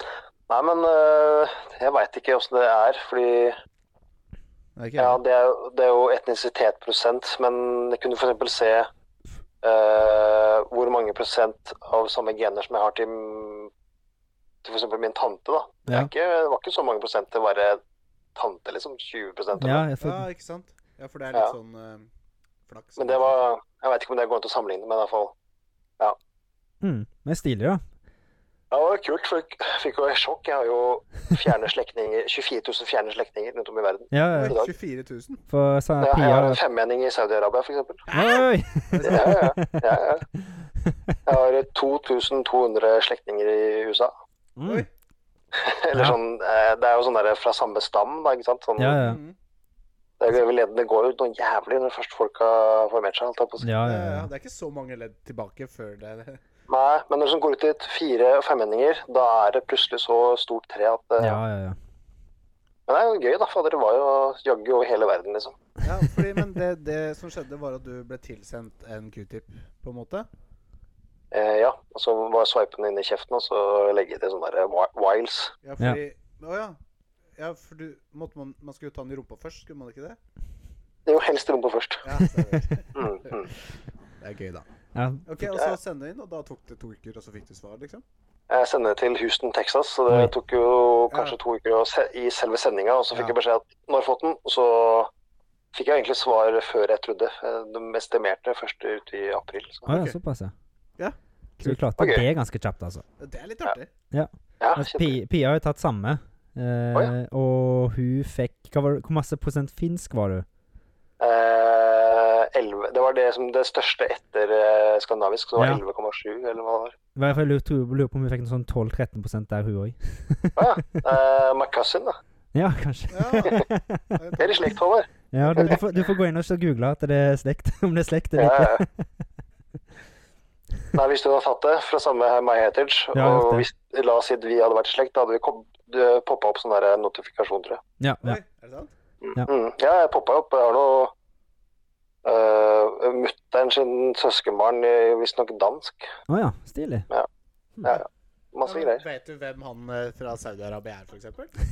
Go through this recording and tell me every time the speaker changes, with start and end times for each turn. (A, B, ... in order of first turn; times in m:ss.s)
0:00.5-0:03.6 A
0:04.8-0:05.2 B
0:05.0-0:08.9 A
0:09.6-0:13.7 A
0:14.6-0:17.8 A
0:18.4-0:19.8 A
0:19.6-0:20.2 C
0:20.0-0:22.1 B
0:22.7-0:23.3 B
0:23.0-0:25.3 A
0:26.8-0:27.8 C
0:28.7-0:34.7 A
0:34.1-0:34.5 C
0:34.3-0:35.4 B
0:35.5-0:36.6 C
0:36.0-0:38.0 A
0:38.1-0:39.5 B
0:38.1-0:41.2 C
0:39.0-0:40.2 A
0:41.2-0:44.1 A
0:44.6-0:44.8 C
0:45.5-0:49.0 A
0:48.8-0:49.2 C
0:49.0-0:49.3 B
0:50.2-0:53.7 A
0:53.6-0:54.3 C
0:53.8-0:56.4 B
0:56.7-1:01.4 A
1:01.2-1:01.8 C
1:02.9-1:05.6 A
1:05.8-1:10.3 B
1:11.3-1:15.5 A
1:15.6-1:16.8 B
1:17.4-1:20.2 B
1:21.0-1:22.0 A
1:22.0-1:23.4 B
1:22.2-1:22.6 C
1:23.0-1:23.5 A
1:24.2-1:24.6 B
1:24.9-1:25.3 C
1:25.2-1:28.0 B
1:28.5-1:35.1 A
1:31.1-1:31.4 B
1:35.7-1:39.9 A
1:39.9-1:40.2 B
1:39.9-1:40.5 C
1:41.0-1:41.8 B
1:41.6-1:43.0 C
1:42.0-1:42.2 A
1:43.2-1:43.9 B
1:44.1-1:50.4 C
1:44.6-1:45.2 A
1:51.2-1:57.0 A
1:57.1-2:01.0 C
2:00.6-2:02.1 A
2:02.5-2:04.2 C
2:03.1-2:03.6 B
2:04.1-2:04.8 B
2:04.4-2:05.8 A
2:05.3-2:09.0 C
2:05.4-2:05.8 B
2:08.4-2:08.8 A
2:10.9-2:17.8 A
2:13.1-2:13.7 C
2:18.0-2:18.4 C
2:18.2-2:18.9 B
2:19.2-2:21.1 A
2:22.2-2:26.1 A
2:26.3-2:27.1 C
2:27.8-2:29.0 A
2:28.6-2:31.5 B